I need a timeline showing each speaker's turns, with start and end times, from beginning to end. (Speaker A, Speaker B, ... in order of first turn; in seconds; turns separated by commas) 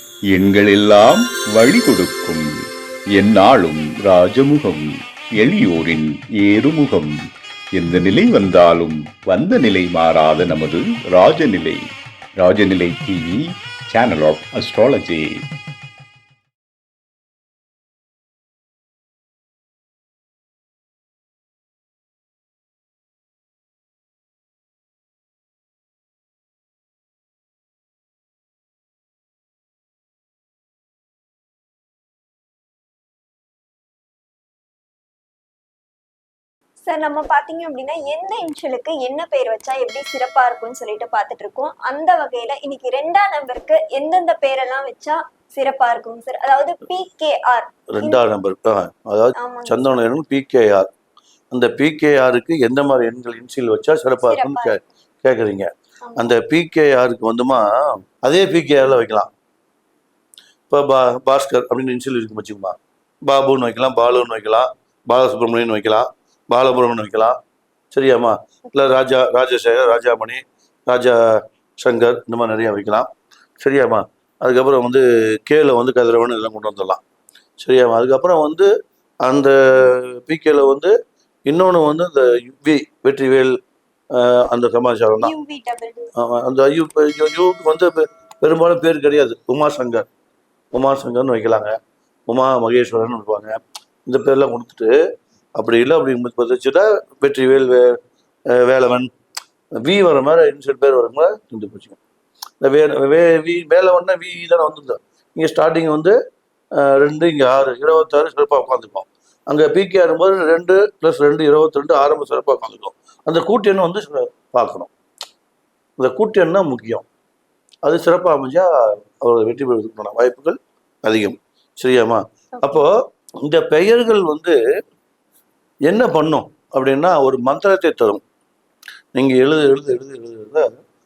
Speaker A: 0.3-2.5, Speaker A: 3.1-7.1, Speaker A: 7.7-11.8, Speaker A: 12.3-15.4, Speaker B: 36.8-48.2, Speaker C: 47.9-50.9, Speaker B: 49.4-49.8, Speaker C: 51.5-57.6, Speaker B: 54.2-54.8, Speaker B: 56.0-56.3, Speaker C: 58.2-59.3, Speaker C: 60.7-67.3, Speaker C: 67.9-71.2, Speaker C: 71.8-73.1, Speaker C: 73.6-77.0, Speaker C: 77.6-78.7, Speaker C: 79.2-80.9, Speaker C: 81.5-83.5, Speaker C: 84.2-85.3, Speaker B: 85.2-86.1, Speaker C: 86.2-90.0, Speaker C: 90.7-91.7, Speaker C: 92.3-94.9, Speaker C: 95.6-97.9, Speaker C: 98.5-99.1, Speaker C: 99.8-102.0, Speaker C: 102.6-106.2, Speaker C: 106.8-114.9, Speaker C: 116.0-117.0, Speaker C: 117.8-118.7, Speaker C: 119.2-122.9, Speaker C: 123.4-124.5, Speaker C: 125.9-128.2, Speaker C: 129.1-130.7